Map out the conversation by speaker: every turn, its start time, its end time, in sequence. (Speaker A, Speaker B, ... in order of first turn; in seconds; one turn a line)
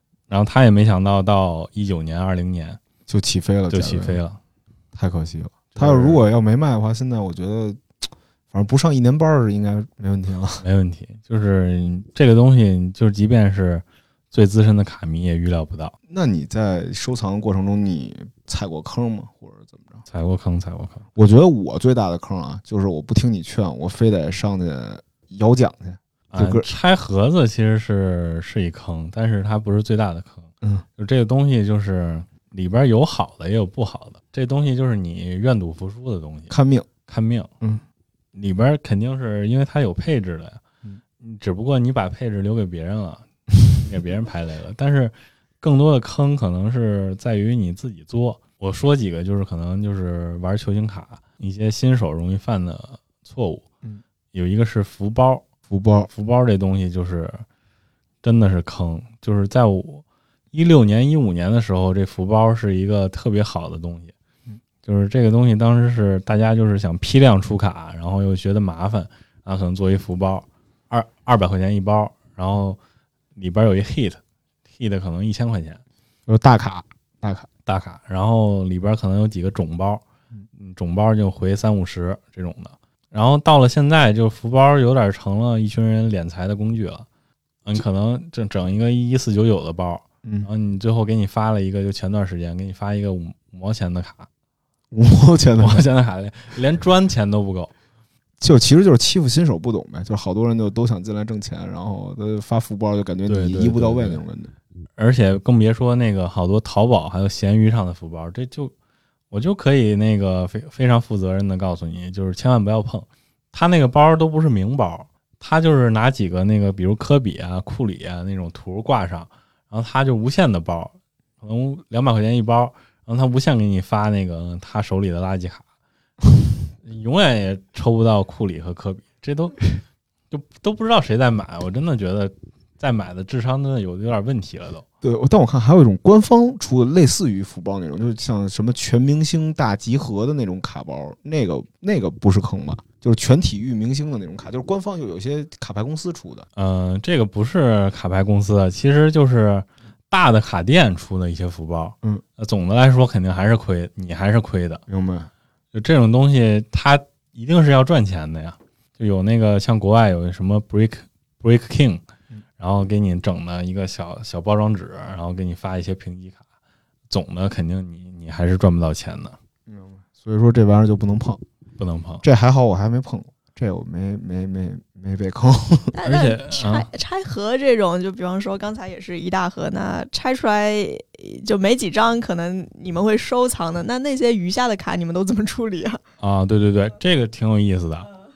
Speaker A: 0.3-2.8
Speaker B: 3.1-4.2
Speaker A: 3.7-4.4
Speaker B: 4.9-7.8
Speaker A: 5.7-6.2
Speaker B: 8.5-10.6
Speaker A: 10.6-15.9
Speaker B: 16.1-20.0
Speaker A: 20.1-21.0
Speaker B: 21.1-26.6
Speaker A: 26.3-36.5
Speaker B: 36.5-36.9
Speaker A: 37.1-37.5
Speaker A: 38.3-40.6
Speaker A: 41.2-53.6
Speaker A: 54.3-55.5
Speaker B: 55.7-56.1
Speaker A: 56.1-57.4
Speaker A: 58.2-64.1
Speaker A: 64.8-72.8
Speaker A: 73.3-74.2
Speaker A: 74.8-75.8
Speaker B: 76.3-77.5
Speaker A: 77.7-80.0
Speaker A: 80.5-87.1
Speaker A: 87.6-94.3
Speaker B: 90.2-90.5
Speaker B: 94.9-95.9
Speaker A: 95.6-97.7
Speaker B: 98.4-104.5
Speaker A: 103.2-104.2
Speaker A: 105.0-108.7
Speaker A: 109.3-125.6
Speaker A: 126.8-129.7
Speaker A: 130.3-134.8
Speaker B: 135.0-146.5
Speaker A: 146.6-154.8
Speaker B: 154.9-155.3
Speaker A: 155.7-162.0
Speaker A: 162.6-166.4
Speaker A: 167.1-169.3
Speaker B: 169.7-171.4
Speaker A: 171.8-172.2
Speaker B: 172.2-175.9
Speaker C: 175.9-186.0
Speaker A: 176.0-176.9
Speaker A: 186.2-188.1